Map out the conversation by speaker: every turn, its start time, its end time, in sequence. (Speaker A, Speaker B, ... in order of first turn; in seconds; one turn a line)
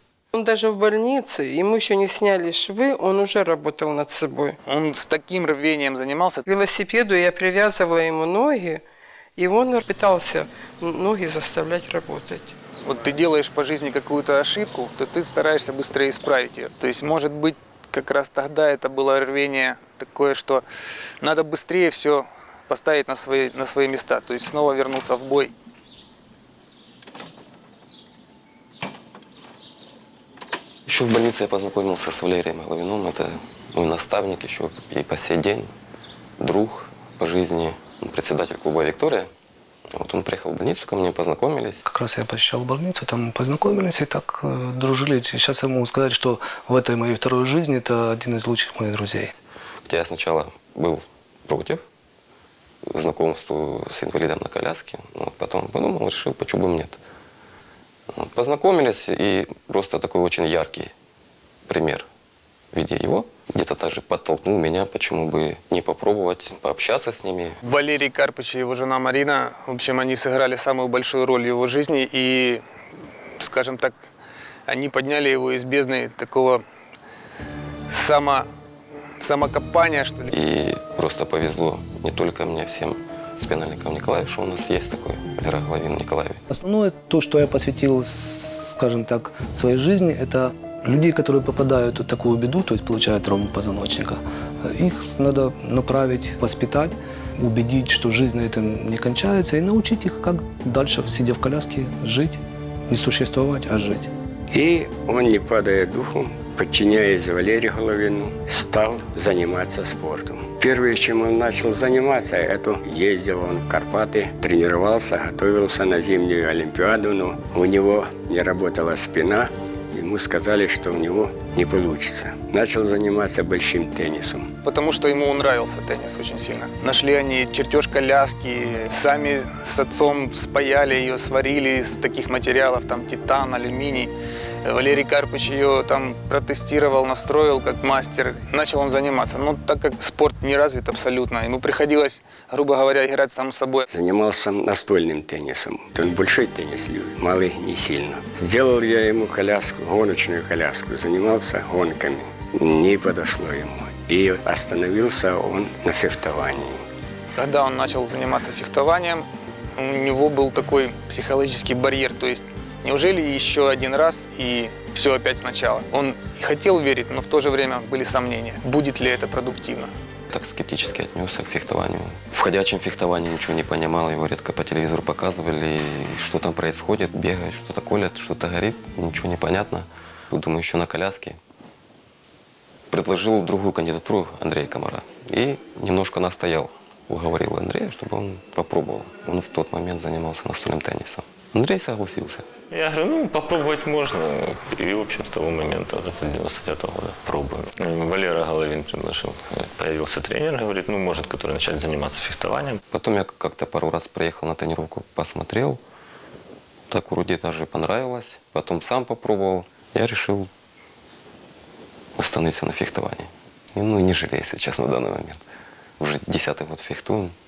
Speaker A: 0.3-4.6
Speaker B: 4.7-6.5
Speaker A: 6.5-8.8
Speaker A: 9.4-12.5
Speaker B: 12.8-20.6
Speaker B: 21.2-25.5
Speaker C: 30.9-35.7
Speaker C: 36.4-39.3
Speaker C: 39.9-41.8
Speaker D: 41.8-49.3
Speaker C: 49.9-51.8
Speaker C: 52.9-57.0
Speaker C: 58.1-60.9
Speaker C: 61.7-62.1
Speaker C: 62.7-67.6
Speaker B: 67.6-72.6
Speaker B: 73.4-74.0
Speaker B: 74.7-76.6
Speaker B: 77.9-78.5
Speaker B: 79.2-80.3
Speaker C: 80.3-86.4
Speaker D: 86.5-104.1
Speaker E: 104.5-124.5
Speaker B: 124.6-134.1
Speaker B: 134.6-143.9
Speaker E: 143.9-156.8
Speaker B: 157.3-169.9
Speaker C: 170.3-181.4
Speaker C: 182.9-192.5
Speaker F: 192.7-202.8
Speaker C: 202.9-205.8
Speaker C: 206.9-210.5
Speaker C: 212.2-215.4
Speaker C: 216.0-217.3